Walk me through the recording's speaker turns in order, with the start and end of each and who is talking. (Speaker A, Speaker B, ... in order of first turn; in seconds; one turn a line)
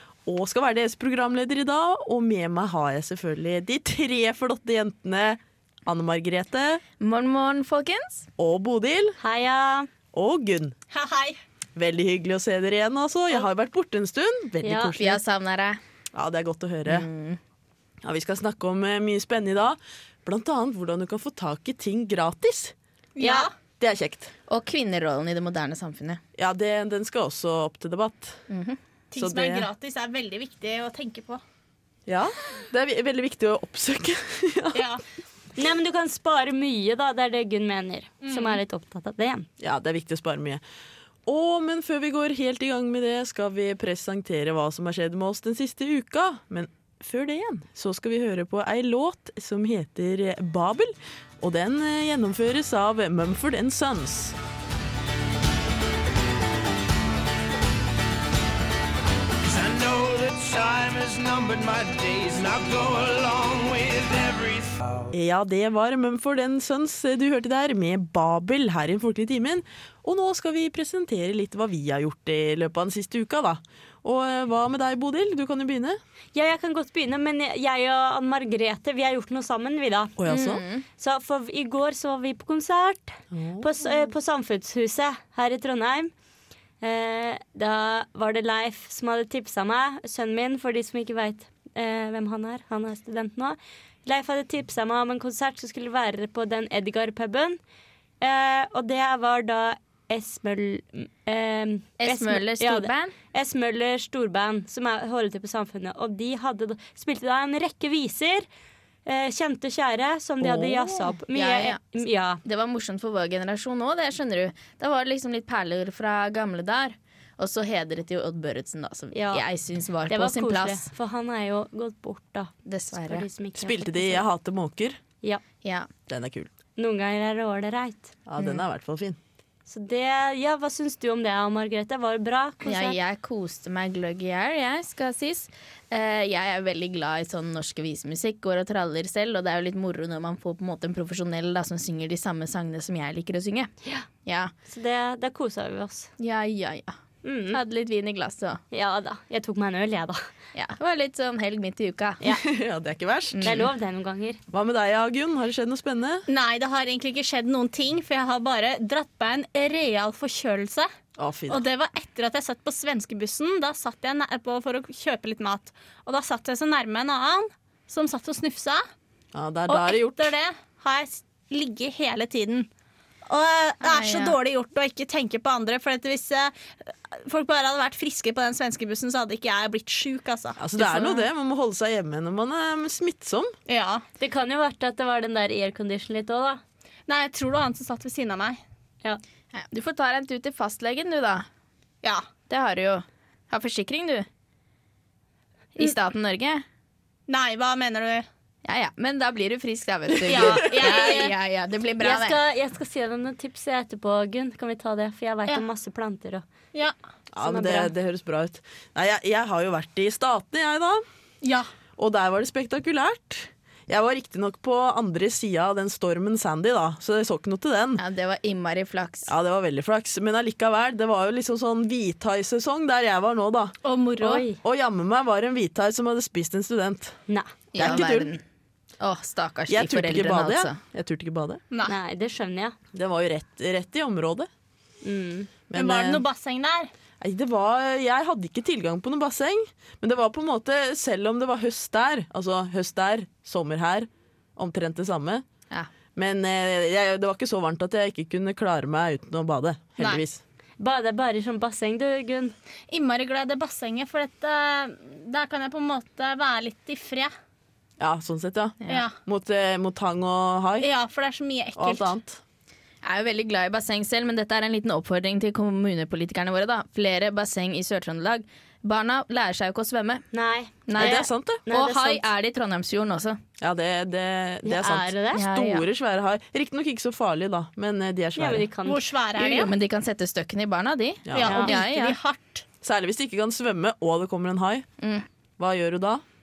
Speaker A: 0.2-6.8
Speaker B: 7.0-8.3
Speaker A: 8.4-9.2
Speaker C: 9.2-9.9
Speaker A: 10.1-10.7
Speaker D: 10.9-11.4
Speaker A: 11.8-15.2
Speaker C: 14.6-15.0
Speaker B: 14.9-15.8
Speaker A: 16.1-17.1
Speaker B: 16.9-17.4
Speaker A: 18.0-22.7
Speaker D: 23.1-23.5
Speaker C: 23.2-23.5
Speaker A: 23.8-24.3
Speaker B: 24.5-26.2
Speaker A: 26.4-28.4
Speaker B: 28.5-28.8
Speaker D: 29.1-31.4
Speaker A: 29.2-29.7
Speaker A: 32.1-34.9
Speaker D: 34.7-35.0
Speaker C: 35.6-39.5
Speaker D: 38.2-38.6
Speaker A: 39.6-40.6
Speaker A: 41.2-54.4
Speaker E: 59.4-65.1
Speaker A: 65.1-76.0
Speaker C: 76.3-80.2
Speaker A: 80.2-80.6
Speaker B: 80.2-80.8
Speaker C: 81.0-86.1
Speaker A: 83.3-83.7
Speaker C: 86.8-97.6
Speaker C: 98.2-108.5
Speaker B: 102.0-103.1
Speaker C: 109.0-112.4
Speaker A: 110.4-110.8
Speaker B: 111.2-111.8
Speaker B: 112.4-120.9
Speaker C: 119.1-119.4
Speaker C: 120.1-124.2
Speaker B: 122.6-123.3
Speaker A: 123.6-125.0
Speaker B: 125.6-125.9
Speaker A: 126.1-126.5
Speaker C: 126.8-128.1
Speaker A: 128.2-129.2
Speaker C: 129.7-132.9
Speaker B: 132.6-143.7
Speaker B: 144.2-144.5
Speaker C: 144.6-146.1
Speaker B: 146.2-146.9
Speaker C: 147.2-147.6
Speaker B: 147.5-148.6
Speaker C: 148.7-150.2
Speaker B: 150.5-152.4
Speaker A: 152.3-153.4
Speaker B: 153.3-153.7
Speaker C: 153.4-154.4
Speaker A: 154.5-156.2
Speaker D: 156.3-160.9
Speaker A: 161.2-161.6
Speaker D: 161.5-168.8
Speaker A: 169.3-170.3
Speaker D: 169.7-172.7
Speaker D: 173.2-181.2
Speaker B: 173.8-174.4
Speaker A: 180.6-183.5
Speaker D: 183.7-184.0
Speaker C: 184.2-186.6
Speaker D: 187.1-188.6
Speaker B: 189.5-191.4
Speaker B: 192.5-194.2
Speaker B: 195.8-196.6
Speaker D: 197.3-198.2
Speaker B: 198.6-202.4
Speaker D: 200.2-201.3
Speaker C: 200.7-201.0
Speaker C: 202.0-206.4
Speaker A: 207.3-211.0
Speaker C: 207.4-207.9
Speaker D: 211.4-211.7
Speaker A: 212.0-218.0
Speaker B: 218.0-219.3
Speaker A: 219.3-223.7
Speaker D: 223.8-224.4
Speaker C: 224.2-224.6
Speaker A: 224.6-227.2
Speaker B: 227.7-228.4
Speaker A: 227.8-228.3
Speaker B: 229.0-230.8
Speaker A: 229.7-231.6
Speaker C: 231.8-232.8
Speaker A: 232.9-234.5
Speaker C: 235.0-235.5
Speaker A: 235.7-236.2
Speaker D: 235.7-236.9
Speaker A: 237.2-245.4
Speaker A: 246.1-250.4
Speaker C: 250.8-252.5
Speaker D: 252.9-257.3
Speaker A: 258.0-260.9
Speaker D: 258.9-259.2
Speaker D: 260.8-262.1
Speaker A: 261.8-262.4
Speaker B: 263.0-270.2
Speaker C: 270.3-272.2
Speaker B: 270.9-273.4
Speaker A: 270.9-271.6
Speaker A: 273.6-278.7
Speaker C: 274.6-275.4
Speaker B: 275.3-275.8
Speaker C: 278.4-279.0
Speaker D: 278.9-279.7
Speaker B: 279.4-282.2
Speaker A: 281.3-281.7
Speaker D: 281.3-282.6
Speaker A: 282.8-284.9
Speaker B: 285.0-285.2
Speaker A: 285.6-286.2